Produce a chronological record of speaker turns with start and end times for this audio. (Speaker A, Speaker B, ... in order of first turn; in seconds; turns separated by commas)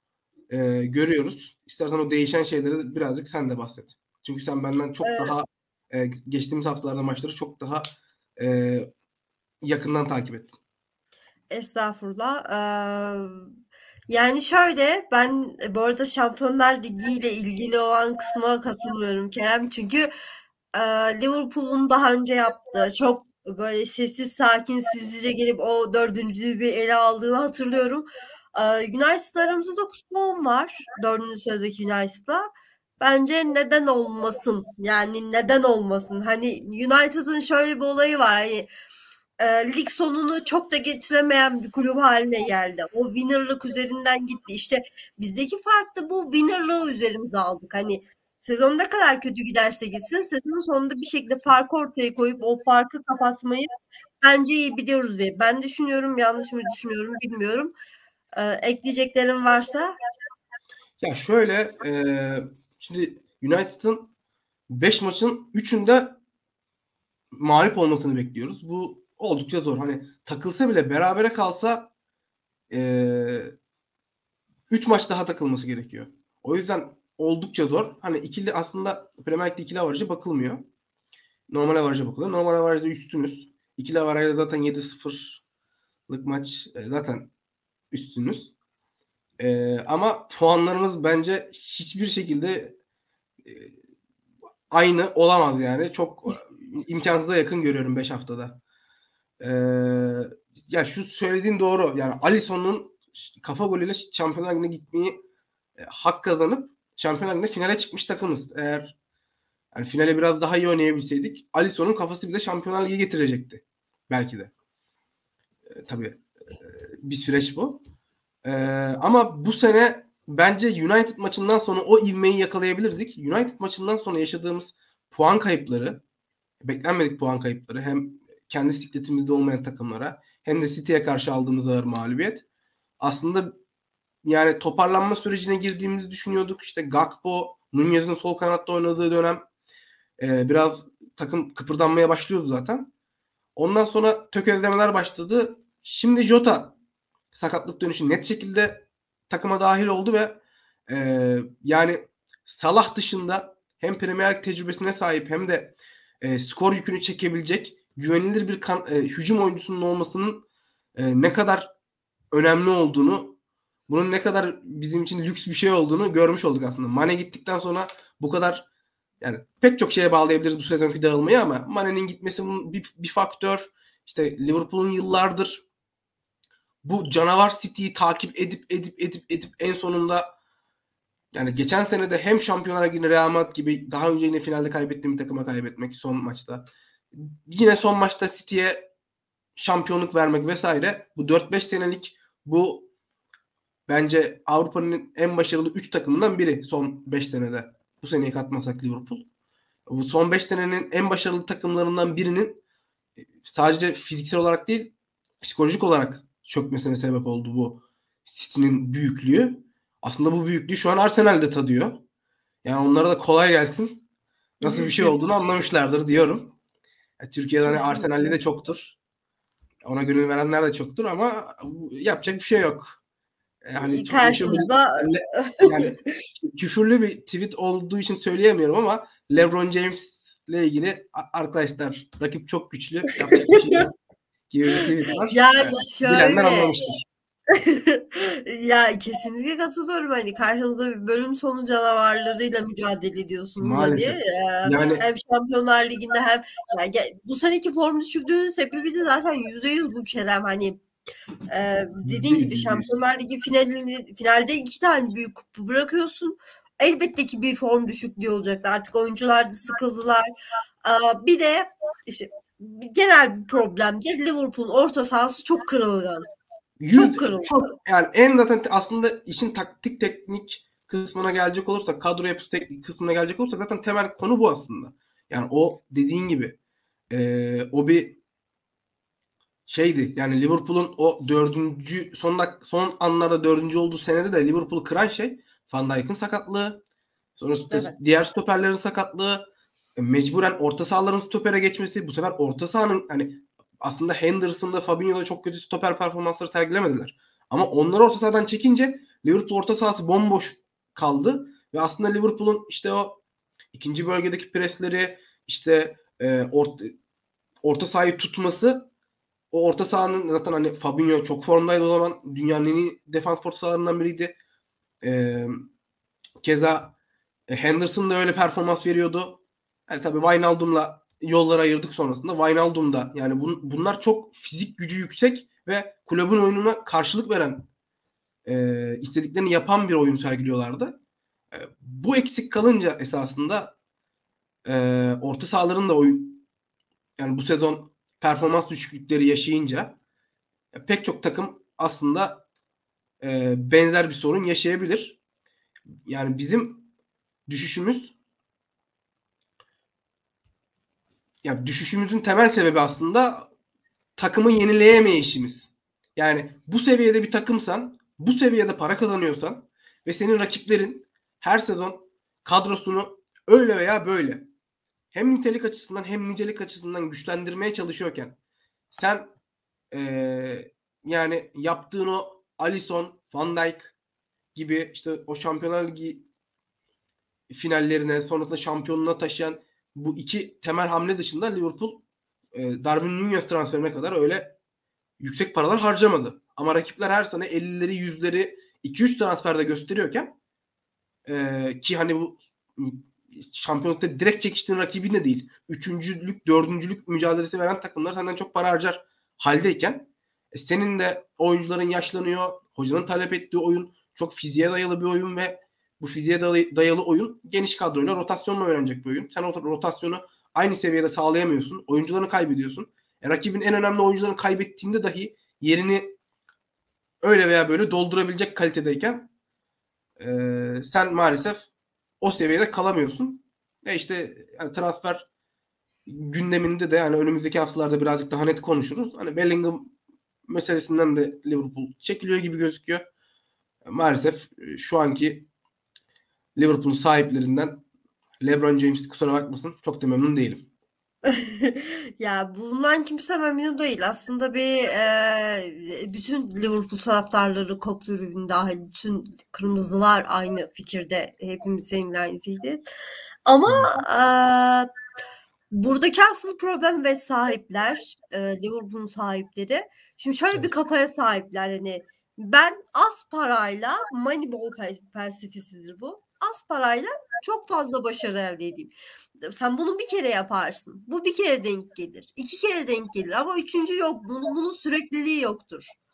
Speaker A: 0.5-8.9, Speaker B: 5.0-5.3, Speaker A: 9.6-10.5, Speaker B: 11.5-13.5, Speaker B: 14.1-20.1, Speaker B: 20.7-32.5, Speaker B: 33.0-38.7, Speaker B: 39.4-53.7, Speaker B: 54.2-57.7, Speaker B: 58.4-59.9, Speaker A: 61.0-64.1, Speaker A: 64.7-66.2, Speaker A: 67.3-71.9, Speaker A: 72.7-73.5, Speaker A: 74.7-80.6, Speaker A: 81.5-85.4, Speaker A: 86.1-87.3, Speaker A: 87.9-88.5, Speaker A: 89.4-92.8, Speaker A: 93.4-93.7, Speaker A: 94.7-98.6, Speaker A: 99.4-105.2, Speaker A: 105.8-109.0, Speaker A: 109.7-114.5, Speaker A: 115.8-117.8, Speaker A: 118.4-126.0, Speaker A: 126.6-132.4, Speaker A: 133.0-133.5, Speaker A: 134.2-139.4, Speaker A: 140.2-142.9, Speaker A: 143.6-146.8, Speaker A: 147.3-160.4, Speaker A: 160.9-161.7, Speaker A: 162.3-168.7, Speaker A: 169.2-175.6, Speaker A: 176.8-180.3, Speaker A: 181.3-188.8, Speaker A: 189.6-192.9, Speaker A: 193.9-199.2, Speaker A: 199.9-202.6, Speaker A: 203.4-212.0, Speaker A: 212.6-214.0, Speaker A: 214.6-216.6, Speaker B: 214.6-215.1, Speaker A: 217.2-219.0, Speaker B: 217.6-218.4, Speaker A: 219.8-223.0, Speaker A: 223.6-233.9, Speaker B: 223.7-225.9, Speaker B: 233.3-233.8, Speaker A: 234.5-237.0, Speaker B: 235.3-236.7, Speaker B: 237.5-250.8, Speaker A: 243.6-245.0, Speaker B: 251.5-260.3, Speaker A: 252.0-252.9, Speaker B: 260.8-266.3, Speaker A: 266.8-276.6, Speaker B: 266.9-267.6, Speaker A: 277.1-278.2, Speaker A: 279.7-286.8, Speaker A: 287.4-303.2, Speaker B: 287.7-288.0, Speaker A: 303.7-306.9, Speaker A: 307.6-308.9, Speaker A: 309.5-314.3, Speaker A: 315.0-315.6, Speaker A: 316.4-316.9, Speaker A: 317.5-327.7, Speaker A: 328.4-330.9, Speaker A: 331.5-333.7, Speaker A: 334.6-336.4, Speaker A: 337.2-340.0, Speaker A: 340.7-342.4, Speaker A: 343.2-345.2, Speaker A: 346.1-346.9, Speaker A: 347.5-348.1, Speaker A: 351.4-353.5, Speaker A: 354.2-364.4, Speaker A: 365.1-368.4, Speaker A: 368.9-369.3, Speaker A: 369.9-373.9, Speaker A: 374.5-376.2, Speaker A: 377.5-384.6, Speaker A: 385.2-390.4, Speaker A: 391.2-416.1, Speaker A: 417.2-419.3, Speaker A: 420.2-421.7, Speaker A: 422.2-425.3, Speaker A: 426.1-429.9, Speaker A: 430.5-433.0, Speaker A: 433.9-435.5, Speaker A: 436.6-437.8, Speaker A: 438.4-440.7, Speaker B: 441.2-452.8, Speaker B: 453.4-454.9, Speaker A: 453.6-454.0, Speaker B: 455.7-468.9, Speaker B: 469.4-476.0